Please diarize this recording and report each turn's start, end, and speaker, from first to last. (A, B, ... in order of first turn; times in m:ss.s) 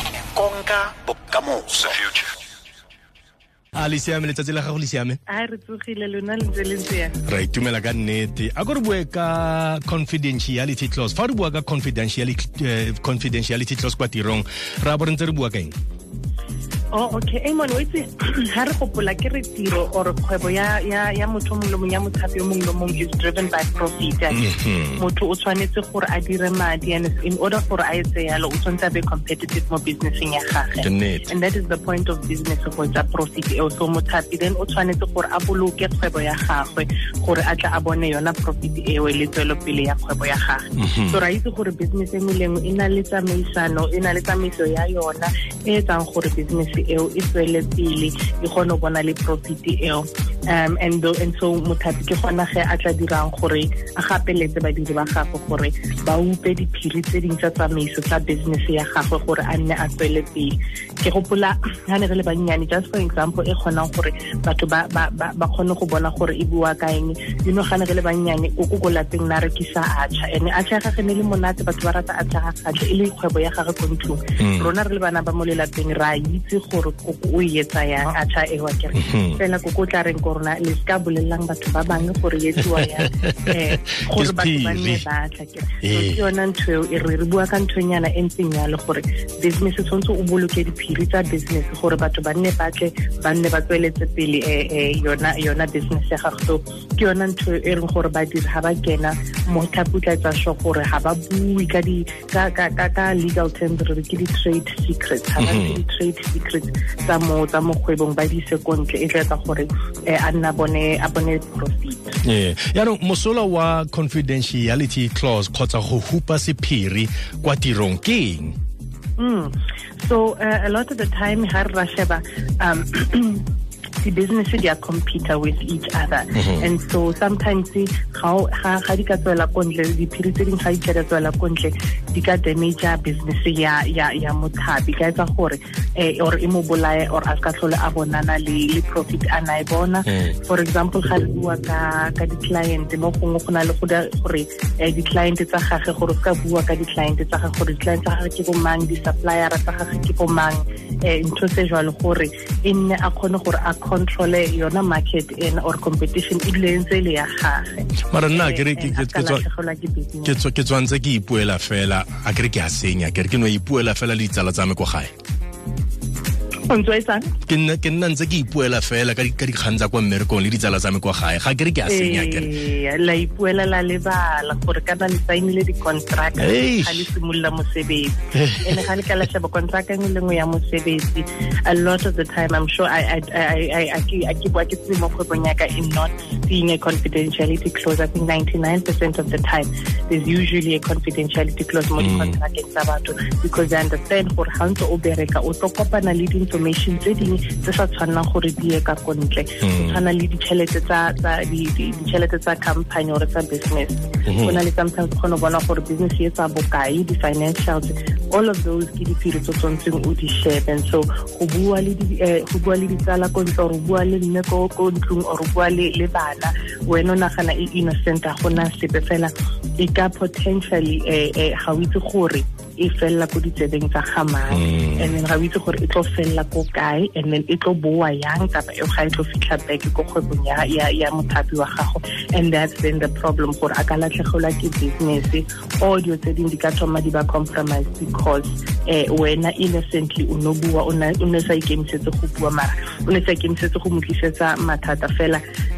0:00.3-0:02.3 A
0:03.8-0:05.2 B
0:05.3-0:07.2 C
0:07.2-0:15.7 B
0:16.9-1:52.2 C
0:24.3-0:25.0 B
0:30.8-0:31.2 B
0:40.8-0:41.2 B
1:14.4-1:14.7 B
1:18.9-1:19.4 B
1:23.0-1:23.6 B
1:24.1-1:25.0 B
1:25.8-1:26.2 B
1:45.4-1:45.8 B
1:52.2-1:58.5 B
1:59.2-2:03.4 C
2:04.0-2:40.4 C
2:06.3-2:06.7 B
2:20.1-2:20.3 B
2:38.1-2:39.4 B
2:40.2-2:45.1 B
2:46.7-2:47.3 C
2:47.5-2:52.5 B
2:51.8-4:05.4 C
2:56.4-2:57.1 B
2:58.3-2:58.9 B
3:12.0-3:12.4 B
3:19.6-3:20.0 B
3:24.3-3:24.6 B
3:44.5-3:45.1 B